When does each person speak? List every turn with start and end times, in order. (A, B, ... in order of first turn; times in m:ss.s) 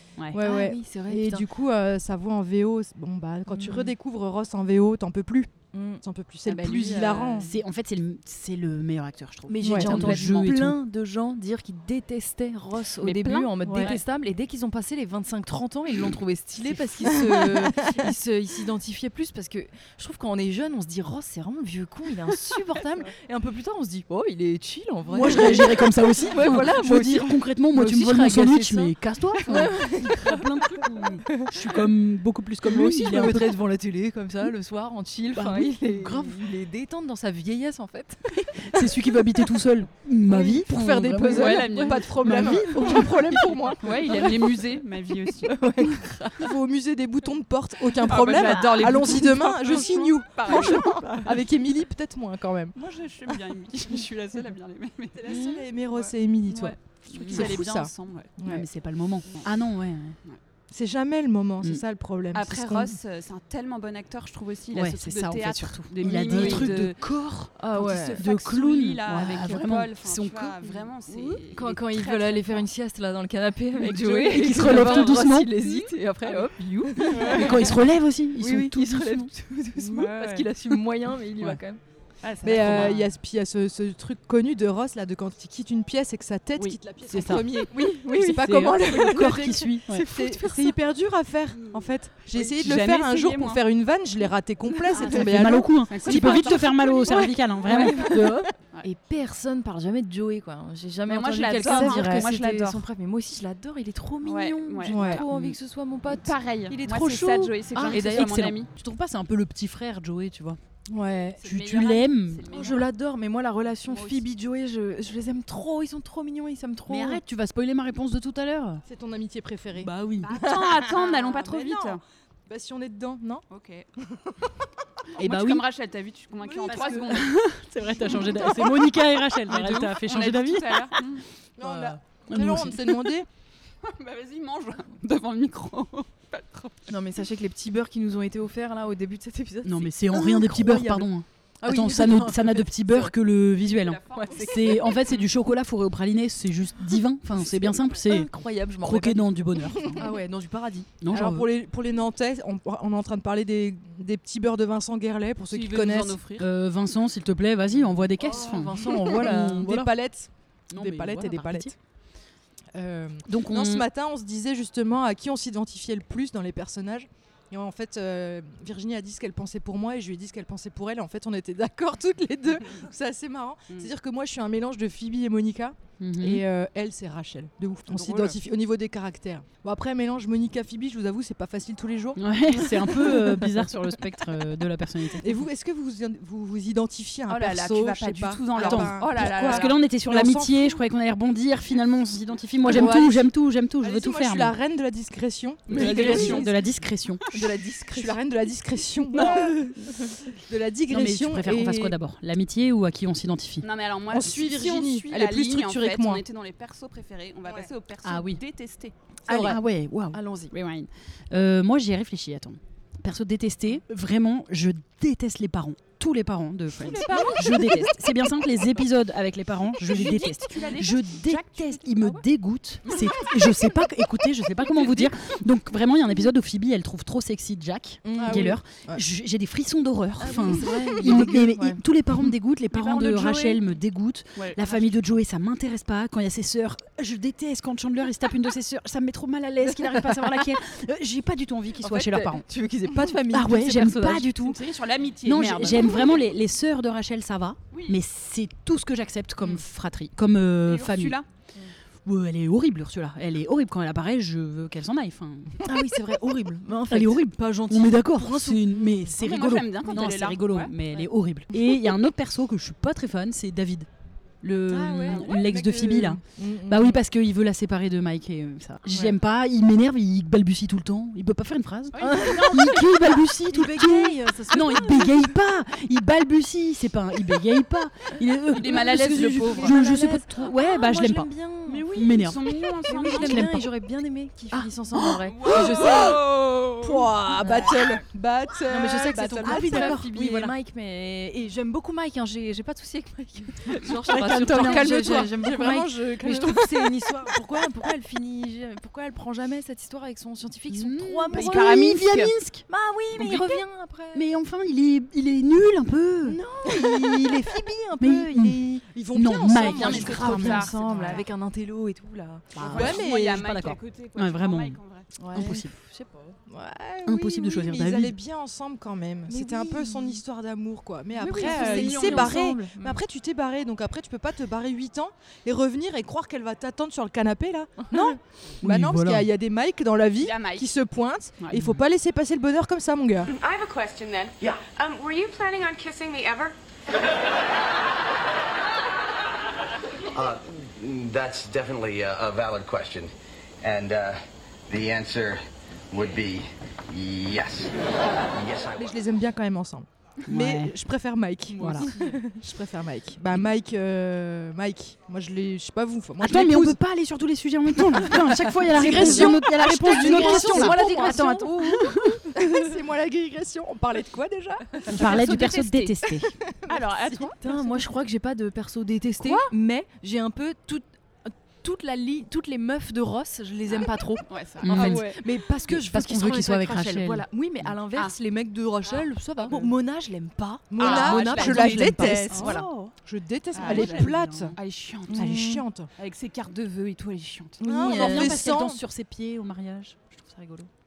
0:00.3-0:07.5 A
0:00.4-0:01.5 B
0:03.5-0:03.9 B
0:05.7-0:06.0 B
0:06.6-0:10.8 C
0:06.8-0:07.3 D
0:09.5-0:30.8 B
0:09.6-0:10.2 A
0:13.0-0:14.0 D
0:13.6-0:13.9 A
0:17.1-0:17.4 A
0:25.1-0:33.6 C
0:32.6-0:38.9 B
0:35.3-0:36.4 C
0:38.6-0:43.2 C
0:40.3-0:43.7 B
0:40.3-0:43.9 A
0:41.3-0:42.6 D
0:43.8-0:46.0 D
0:45.6-0:52.8 A
0:45.8-0:46.3 B
0:48.0-0:51.4 D
0:50.5-0:50.8 B
0:52.8-0:55.4 D
0:55.2-0:58.6 A
0:56.0-0:58.3 D
0:57.2-0:57.7 C
0:58.4-1:00.2 C
1:00.7-1:03.0 A
1:02.3-1:07.0 D
1:04.7-1:10.8 C
1:06.3-1:06.7 B
1:07.6-1:08.2 B
1:07.7-1:12.7 D
1:11.1-1:17.8 B
1:13.8-1:16.5 D
1:13.8-1:15.6 C
1:17.1-1:19.3 C
1:17.1-1:17.5 D
1:18.4-1:23.1 B
1:19.9-1:20.5 D
1:22.4-1:38.2 A
1:22.6-1:22.9 D
1:22.6-1:22.9 C
1:26.6-1:30.1 C
1:27.7-1:28.6 B
1:30.2-1:30.7 B
1:32.3-1:33.6 D
1:34.9-1:38.5 C
1:35.9-1:36.8 D
1:36.1-1:38.2 B
1:38.8-1:48.5 B
1:41.1-1:42.8 D
1:41.6-1:42.2 C
1:44.2-1:45.3 D
1:44.9-1:45.2 A
1:45.2-1:45.6 C
1:46.1-1:48.7 D
1:47.7-1:50.6 C
1:51.0-1:51.3 B
1:51.0-1:51.3 A
1:51.4-1:52.6 C
1:51.4-1:52.9 D
1:52.5-1:57.2 B
1:53.8-1:54.2 D
1:56.9-1:58.8 C
1:58.9-2:03.4 A
1:59.8-2:00.5 C
2:00.2-2:02.0 D
2:03.5-2:03.9 D
2:05.2-2:05.6 C
2:05.2-2:07.4 D
2:06.4-2:07.1 A
2:06.6-2:11.0 C
2:08.1-2:11.2 D
2:11.6-2:13.3 A
2:11.6-2:13.2 C
2:13.8-2:16.9 D
2:16.9-2:21.1 B
2:19.6-2:28.3 C
2:21.6-2:23.1 B
2:23.6-2:25.0 D
2:24.2-2:25.2 B
2:27.4-2:29.3 B
2:28.8-2:30.2 C
2:30.0-2:30.9 B
2:31.0-2:31.5 C
2:31.1-2:36.2 A
2:35.5-2:36.5 D
2:36.4-2:39.9 C
2:38.2-2:39.6 B
2:39.0-2:41.7 A
2:40.7-2:41.7 C
2:42.8-3:03.5 A
2:43.3-2:43.9 C
2:56.0-2:56.4 C
2:57.9-2:58.3 D
3:02.2-3:05.5 C
3:05.2-3:10.7 A
3:07.3-3:09.8 D
3:08.6-3:14.6 C
3:12.7-3:13.3 A
3:13.8-3:16.5 A
3:15.7-3:16.5 D
3:15.7-3:17.2 C
3:15.8-3:16.5 B
3:17.3-3:18.2 B
3:18.0-3:22.0 A
3:19.2-3:19.5 B
3:20.9-3:23.7 C
3:23.6-3:28.9 D
3:24.1-3:26.2 A
3:28.0-3:28.4 C
3:29.3-3:29.6 A
3:29.3-3:30.5 B
3:29.3-4:02.5 C
3:36.8-3:37.9 D
3:37.1-3:37.4 B
3:39.8-3:42.2 D
3:42.9-3:43.5 D
3:44.6-3:45.1 D
3:48.1-3:49.0 A
3:48.1-3:48.6 B
3:50.2-3:51.8 B
3:52.7-3:53.6 D
3:54.4-3:54.9 D
4:01.8-4:04.6 B
4:03.3-4:04.6 C
4:04.4-4:06.2 D
4:05.2-4:11.2 C
4:10.7-4:11.3 D
4:12.0-4:15.8 C
4:15.6-4:18.8 B
4:16.9-4:23.9 C
4:19.1-4:20.8 D
4:24.4-4:41.3 C
4:24.7-4:25.5 B
4:24.8-4:27.0 A
4:32.0-4:32.9 D
4:32.0-4:32.8 B
4:33.4-4:35.3 B
4:38.5-4:39.8 D
4:38.7-4:42.0 B
4:41.7-4:43.5 D
4:41.9-4:43.7 C
4:42.9-4:46.3 B
4:44.5-4:46.2 C
4:45.4-4:46.6 D
4:45.8-4:46.1 A
4:46.8-4:50.0 A
4:47.1-4:47.7 C
4:47.4-4:48.0 B
4:48.6-5:04.3 B
4:49.4-4:50.5 C
4:54.0-4:55.3 C
4:54.3-4:57.0 A
5:00.7-5:02.7 C
5:01.3-5:02.3 D
5:03.2-5:03.5 C
5:04.1-5:07.4 C
5:06.3-5:08.8 B
5:08.0-5:11.2 C
5:08.9-5:10.7 A
5:09.5-5:11.3 D
5:09.8-5:12.8 B
5:12.6-5:14.8 C
5:12.6-5:15.1 D
5:12.7-5:13.4 A
5:15.2-5:16.4 B
5:15.3-5:15.8 C
5:16.5-5:33.3 A
5:17.1-5:18.2 C
5:19.3-5:20.2 B
5:21.2-5:23.0 B
5:21.3-5:22.4 D
5:28.6-5:29.3 C
5:30.2-5:30.7 D
5:33.3-5:36.6 E
5:40.1-5:48.9 F
5:48.8-5:56.8 A
5:50.3-5:50.7 C
5:51.6-5:51.9 C
5:51.6-5:52.2 D
5:56.2-6:02.2 C
5:58.6-6:01.5 A
5:58.8-6:01.9 B
5:59.9-6:01.1 D
6:02.3-6:05.0 A
6:04.9-6:06.3 C
6:04.9-6:06.1 D
6:06.7-6:07.8 D
6:07.4-6:22.9 B
6:09.2-6:09.5 D
6:13.7-6:15.2 D
6:14.6-6:17.7 C
6:18.8-6:19.7 D
6:20.7-6:24.6 A
6:20.8-6:22.7 D
6:21.7-6:22.7 C
6:23.6-6:25.2 D
6:23.6-6:24.6 C
6:23.6-6:23.9 B
6:25.1-6:25.6 B
6:25.1-6:25.9 A
6:25.2-6:25.5 C
6:26.0-6:27.6 D
6:27.6-6:28.4 B
6:27.6-6:28.8 A
6:27.7-6:30.7 C